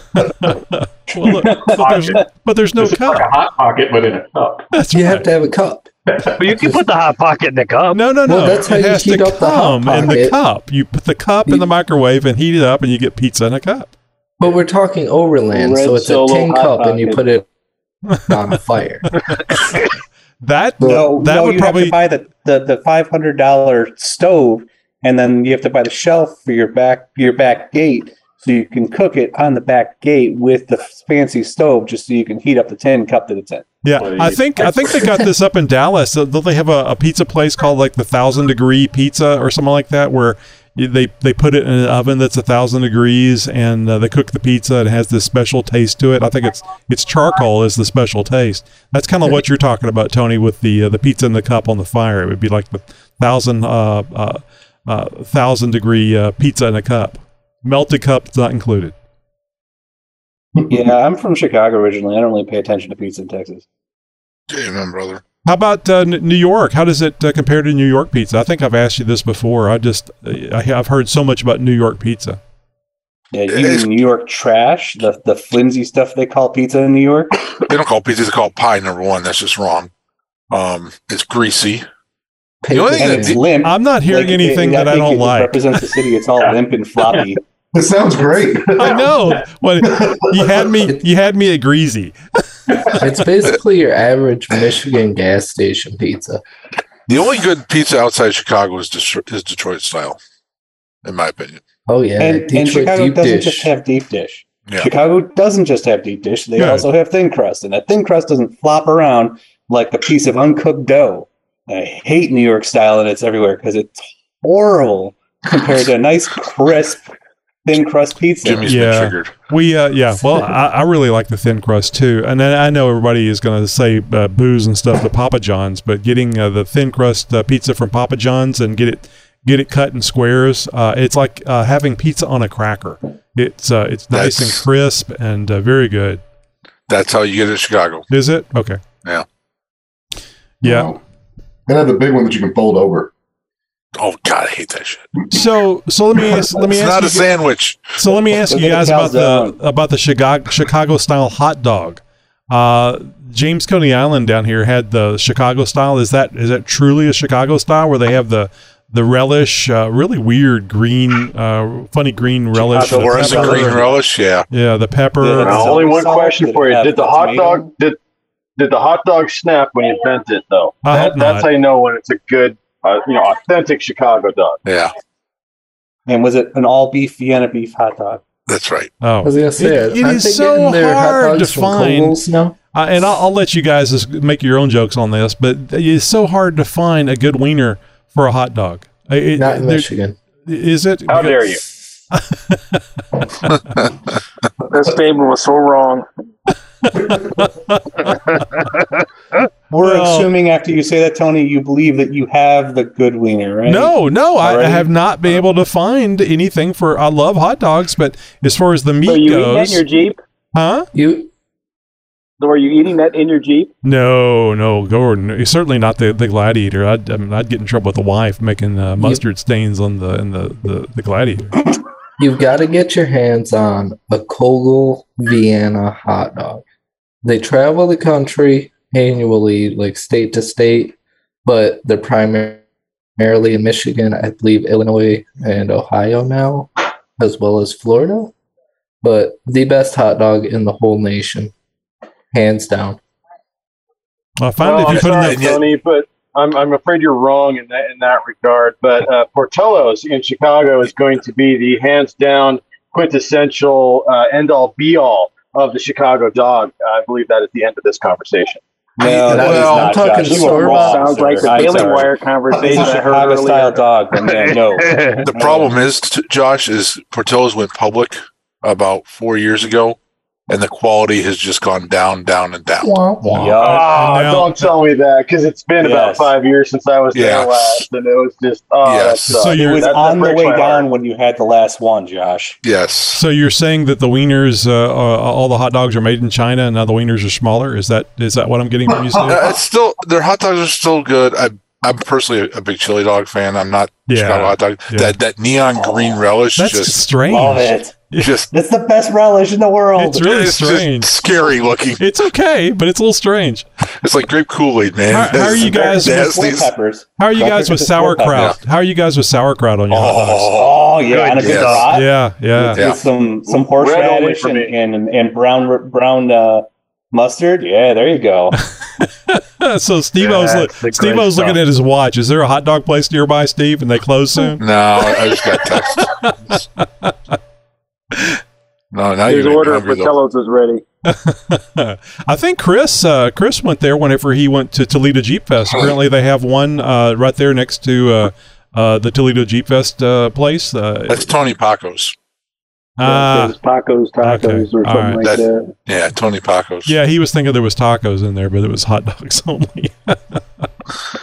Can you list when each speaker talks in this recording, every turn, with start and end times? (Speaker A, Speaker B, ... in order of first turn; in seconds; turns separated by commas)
Speaker A: 0.4-3.3, Speaker B: 1.2-2.2, Speaker B: 2.8-4.7, Speaker A: 4.7-5.3, Speaker C: 4.9-5.9, Speaker B: 6.1-6.4, Speaker D: 6.4-8.0, Speaker C: 6.6-6.8, Speaker A: 7.9-13.9, Speaker C: 8.2-10.4, Speaker C: 14.4-17.4, Speaker E: 15.5-17.2, Speaker C: 18.2-19.1, Speaker A: 20.4-21.9, Speaker F: 20.8-33.7, Speaker A: 33.8-58.9, Speaker B: 33.9-35.0, Speaker F: 60.7-63.6, Speaker G: 64.5-65.2, Speaker A: 65.5-72.4, Speaker F: 73.3-77.3, Speaker G: 73.5-73.9, Speaker G: 77.7-79.9, Speaker G: 80.5-81.8, Speaker C: 82.6-83.4, Speaker G: 82.7-83.4, Speaker F: 83.0-87.4, Speaker A: 83.6-85.6, Speaker H: 87.7-89.3, Speaker A: 88.8-92.9, Speaker H: 89.9-90.6, Speaker C: 93.0-96.4, Speaker G: 97.1-100.2, Speaker G: 101.0-101.6, Speaker C: 101.9-103.7, Speaker F: 102.2-117.0, Speaker A: 106.6-106.9, Speaker F: 117.6-118.7, Speaker G: 118.4-119.3, Speaker A: 118.6-136.2, Speaker G: 134.1-134.6, Speaker G: 136.9-138.1, Speaker A: 138.1-138.8, Speaker A: 140.6-140.9, Speaker H: 140.6-141.0, Speaker H: 141.7-143.1, Speaker G: 143.9-145.1, Speaker A: 145.3-147.4, Speaker G: 146.6-147.9, Speaker A: 147.9-163.8, Speaker F: 148.5-149.6, Speaker F: 162.6-163.9, Speaker I: 162.8-163.6, Speaker G: 163.2-164.5, Speaker A: 164.5-165.7, Speaker F: 165.2-167.7, Speaker I: 165.4-168.0, Speaker I: 168.6-174.6, Speaker A: 170.8-171.5, Speaker G: 174.6-174.9, Speaker F: 176.1-178.2, Speaker G: 178.5-178.9, Speaker A: 179.0-189.9, Speaker C: 179.2-182.6, Speaker C: 189.3-190.2, Speaker A: 190.4-191.6, Speaker I: 191.1-191.6, Speaker A: 192.1-192.8, Speaker E: 194.7-196.1, Speaker A: 196.8-198.1, Speaker H: 197.1-197.4, Speaker A: 199.7-200.3, Speaker F: 199.7-204.9, Speaker A: 203.7-209.8, Speaker E: 209.0-210.2, Speaker A: 210.5-210.9, Speaker C: 210.9-211.3, Speaker E: 212.4-213.7, Speaker A: 213.8-221.5, Speaker C: 222.2-226.6, Speaker C: 227.2-232.6, Speaker C: 233.2-238.3, Speaker C: 239.0-241.5, Speaker C: 242.3-243.0, Speaker A: 244.4-245.6, Speaker I: 244.6-260.7, Speaker G: 244.9-245.7, Speaker F: 259.0-265.6, Speaker C: 259.3-261.2, Speaker G: 259.6-259.8, Speaker E: 260.3-263.8, Speaker I: 261.3-262.0, Speaker D: 264.3-265.3, Speaker G: 265.2-272.9, Speaker C: 272.8-273.4, Speaker A: 273.2-274.7, Speaker F: 273.4-274.0, Speaker I: 273.6-280.9, Speaker F: 275.8-276.3, Speaker G: 277.1-277.9, Speaker G: 278.8-279.5, Speaker A: 279.3-279.8, Speaker F: 279.5-282.6, Speaker G: 282.6-283.2, Speaker A: 283.1-289.4, Speaker H: 289.1-289.5, Speaker G: 289.2-297.1, Speaker A: 294.1-295.1, Speaker A: 296.6-298.4, Speaker F: 297.3-300.3, Speaker G: 298.1-298.5, Speaker A: 299.9-301.2, Speaker G: 300.2-302.0, Speaker A: 302.0-303.6, Speaker G: 303.9-306.7, Speaker A: 305.1-306.4, Speaker F: 305.4-308.5, Speaker A: 307.2-310.5, Speaker G: 309.9-310.8, Speaker F: 310.5-318.6, Speaker I: 311.1-311.8, Speaker G: 311.4-311.9, Speaker A: 311.9-312.8, Speaker G: 312.8-313.0, Speaker I: 313.4-314.8, Speaker A: 318.8-324.6, Speaker D: 320.2-321.6, Speaker G: 324.6-326.6, Speaker A: 325.9-327.3, Speaker A: 328.1-328.4, Speaker G: 328.9-330.1, Speaker E: 329.3-330.8, Speaker A: 331.0-341.3, Speaker G: 341.1-342.1, Speaker A: 343.0-343.6, Speaker E: 343.0-345.7, Speaker A: 344.2-345.3, Speaker G: 345.2-346.9, Speaker A: 346.9-350.4